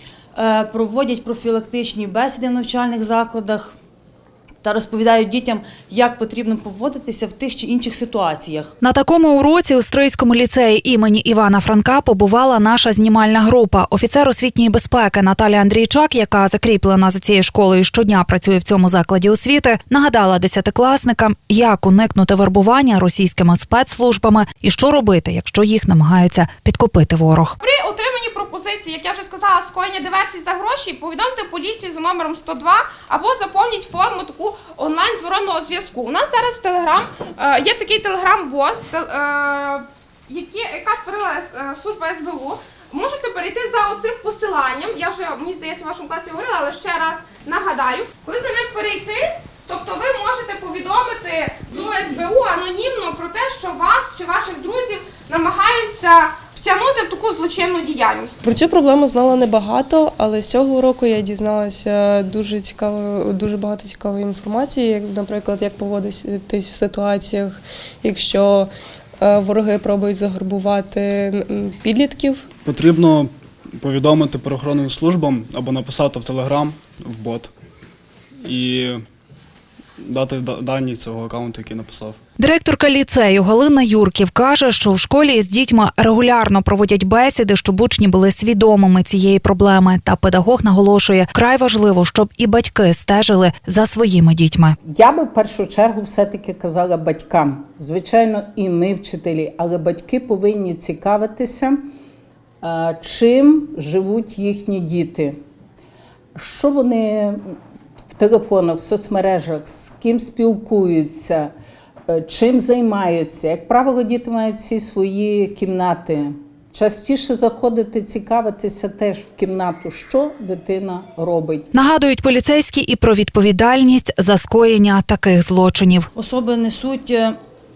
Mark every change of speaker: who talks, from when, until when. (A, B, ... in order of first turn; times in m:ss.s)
0:00.4-0:03.7 A
0:04.6-0:08.7 A
0:08.8-0:27.6 B
0:27.6-0:58.4 C
0:58.4-1:12.4 D
1:12.6-1:17.5 E
1:18.4-1:19.0 E
1:20.0-1:22.2 E
1:22.4-1:34.8 B
1:34.9-1:41.8 F
1:42.6-1:45.4 F
1:46.3-1:47.5 F
1:48.1-1:51.5 F
1:52.1-2:01.7 F
2:01.7-2:06.1 B
2:06.2-2:07.3 A